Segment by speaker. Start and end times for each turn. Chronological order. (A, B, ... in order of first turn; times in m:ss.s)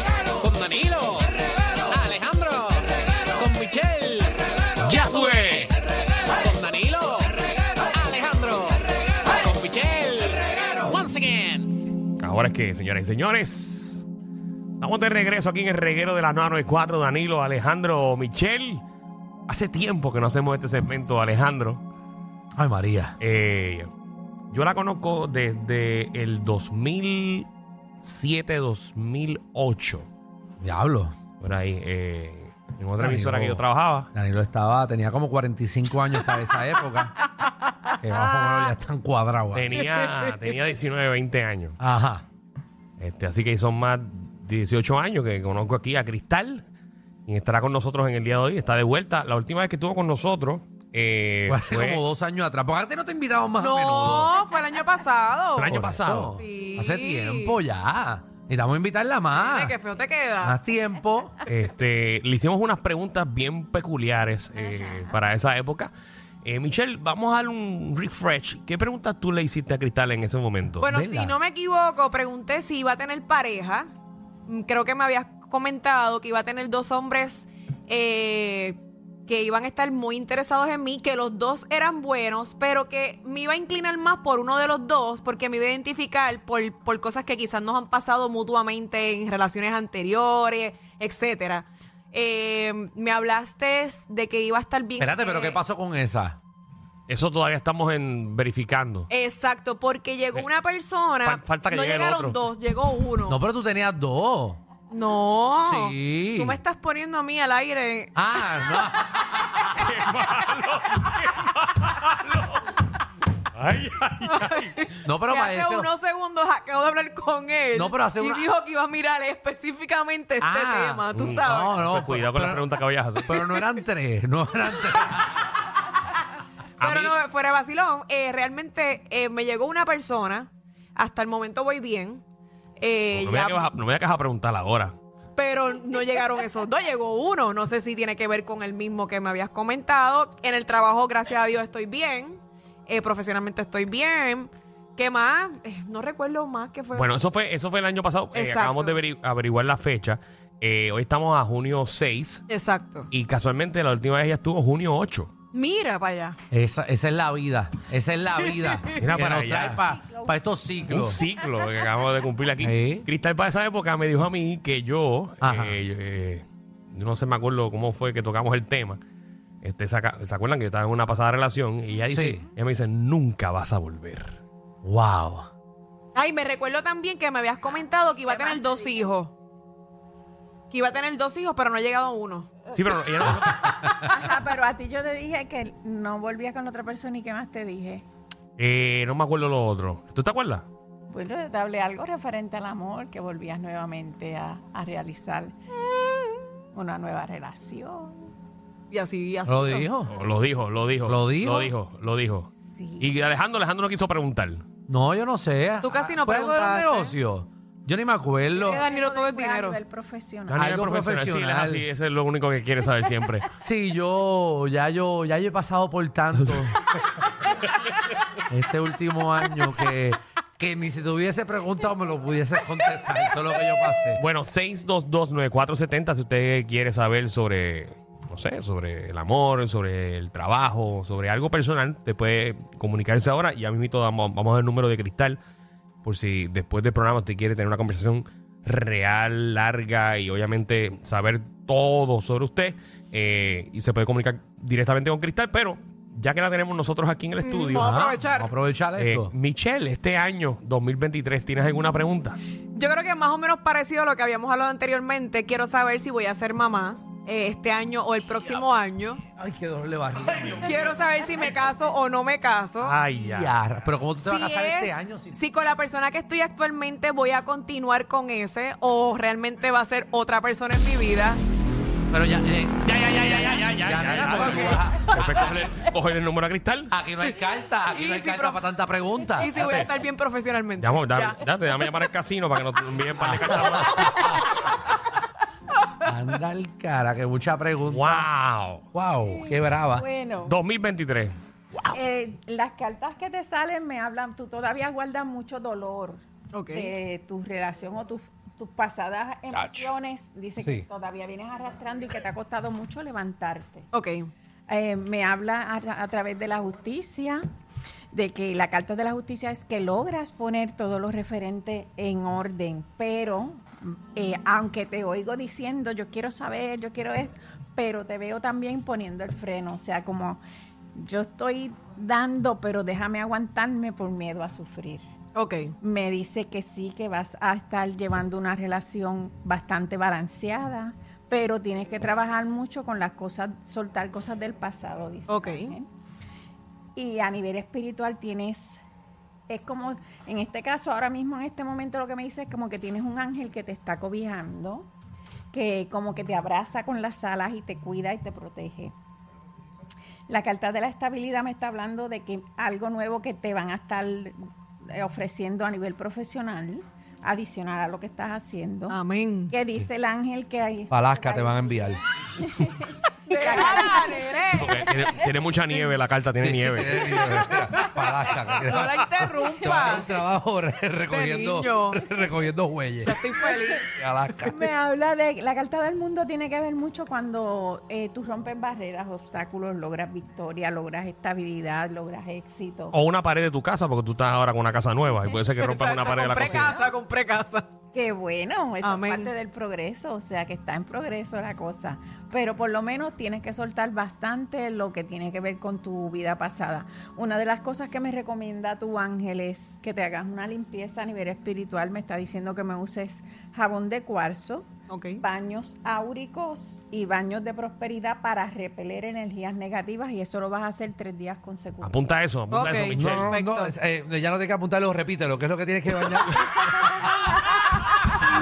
0:00.4-0:05.0 A
0:04.8-0:05.7 B
0:06.3-0:11.8 A
0:12.2-0:14.0 B
0:14.8-0:18.8 B
0:19.5-0:21.8 B
0:22.6-0:23.2 C
0:23.2-0:23.9 B
0:24.5-0:27.5 B
0:28.0-0:30.1 B
0:30.6-0:31.2 C
0:31.4-0:34.1 B
0:33.0-0:33.6 C
0:34.1-0:37.2 C
0:37.4-0:38.7 D
0:38.0-0:39.8 C
0:39.5-0:41.8 B
0:39.9-0:40.4 D
0:41.8-0:42.2 C
0:43.0-0:46.6 B
0:47.3-0:52.0 B
0:51.5-0:54.3 C
0:53.6-0:55.8 D
0:55.5-0:56.4 B
0:55.7-0:59.7 C
0:56.4-0:57.5 D
0:59.3-1:00.6 D
1:00.4-1:01.4 C
1:01.4-1:05.9 B
1:06.4-1:10.9 B
1:10.8-1:13.9 D
1:10.8-1:11.4 C
1:14.5-1:35.6 D
1:35.0-1:36.4 C
1:37.1-1:39.1 B
1:39.1-1:43.4 D
1:41.2-1:42.4 B
1:43.3-1:44.6 C
1:44.9-1:48.9 D
1:45.6-1:46.6 C
1:48.2-1:49.5 C
1:49.7-1:52.7 B
1:53.5-1:54.8 B
1:54.2-2:01.7 D
1:55.0-1:55.9 C
1:57.8-1:58.4 C
2:00.4-2:02.7 C
2:01.1-2:03.6 B
2:03.2-2:05.5 C
2:06.8-2:07.2 B
2:06.8-2:12.2 D
2:12.8-2:13.7 D
2:13.1-2:14.9 B
2:15.4-2:27.1 D
2:26.9-2:32.4 B
2:28.3-2:29.0 D
2:32.5-2:33.1 D
2:33.1-2:35.3 B
2:35.5-2:36.4 D
2:36.5-2:41.2 C
2:39.0-2:39.8 B
2:39.3-2:41.6 E
2:40.9-2:49.0 B
2:42.6-2:43.1 C
2:45.4-2:45.8 C
2:49.6-2:54.4 B
2:52.1-2:52.4 C
2:54.8-2:55.5 C
2:56.1-2:59.3 D
2:58.2-2:59.1 E
3:00.7-3:02.7 D
3:02.7-3:03.7 B
3:03.7-3:04.2 D
3:04.0-3:08.0 E
3:08.6-3:10.6 B
3:11.1-3:15.5 E
3:16.7-3:18.3 E
3:18.9-3:19.9 D
3:19.4-3:20.1 C
3:20.1-3:22.5 B
3:21.0-3:21.7 C
3:22.7-3:23.1 E
3:23.0-3:24.6 B
3:24.9-3:28.8 C
3:25.8-3:27.1 D
3:28.5-3:30.7 E
3:28.8-3:29.8 D
3:30.5-3:33.5 B
3:30.5-3:31.8 C
3:33.6-3:36.8 C
3:36.6-3:37.0 B
3:38.5-3:44.2 C
3:44.2-3:55.4 B
3:56.0-4:08.2 B
4:07.4-4:08.5 D
4:07.8-4:09.3 C
4:08.9-4:12.4 B
4:12.7-4:19.2 D
4:19.3-4:20.8 C
4:20.6-4:23.0 D
4:22.8-4:23.5 B
4:23.1-4:25.4 C
4:24.2-4:31.4 D
4:32.1-4:35.2 C
4:32.8-4:37.0 B
4:35.1-4:35.4 D
4:36.9-4:39.6 C
4:37.9-4:38.6 D
4:39.4-4:42.1 D
4:39.6-4:39.9 B
4:40.8-4:44.4 B
4:43.2-4:44.4 C
4:46.0-4:48.3 C
4:47.9-4:48.8 B
4:48.9-4:50.0 C
4:49.3-4:50.6 E
4:50.4-4:51.4 B
4:51.9-5:03.9 E
4:56.5-4:56.9 D
4:59.5-4:59.9 C
5:00.6-5:00.8 C
5:03.9-5:04.3 D
5:04.7-5:07.4 E
5:08.1-5:20.4 E
5:20.9-5:25.0 E
5:25.3-5:25.7 D
5:25.8-5:35.9 E
5:35.3-5:35.7 D
5:37.0-5:38.8 E
5:39.5-5:44.9 E
5:45.5-5:48.9 E
5:50.3-5:54.4 E
5:54.9-5:59.0 E
5:58.9-5:59.6 D
5:59.5-6:04.3 E
6:00.9-6:02.0 C
6:03.3-6:04.8 D
6:04.6-6:07.2 B
6:06.4-6:13.2 C
6:07.2-6:08.0 D
6:08.6-6:10.1 D
6:11.1-6:12.0 D
6:13.0-6:13.9 D
6:13.5-6:13.8 E
6:13.9-6:14.6 C
6:14.4-6:23.0 E
6:22.9-6:26.8 B
6:25.6-6:27.6 D
6:26.2-6:26.9 E
6:27.9-6:44.7 E
6:28.8-6:29.3 D
6:44.9-6:45.2 D
6:45.2-6:52.0 E
6:51.8-6:53.3 B
6:52.5-6:53.7 D
6:53.0-6:57.0 C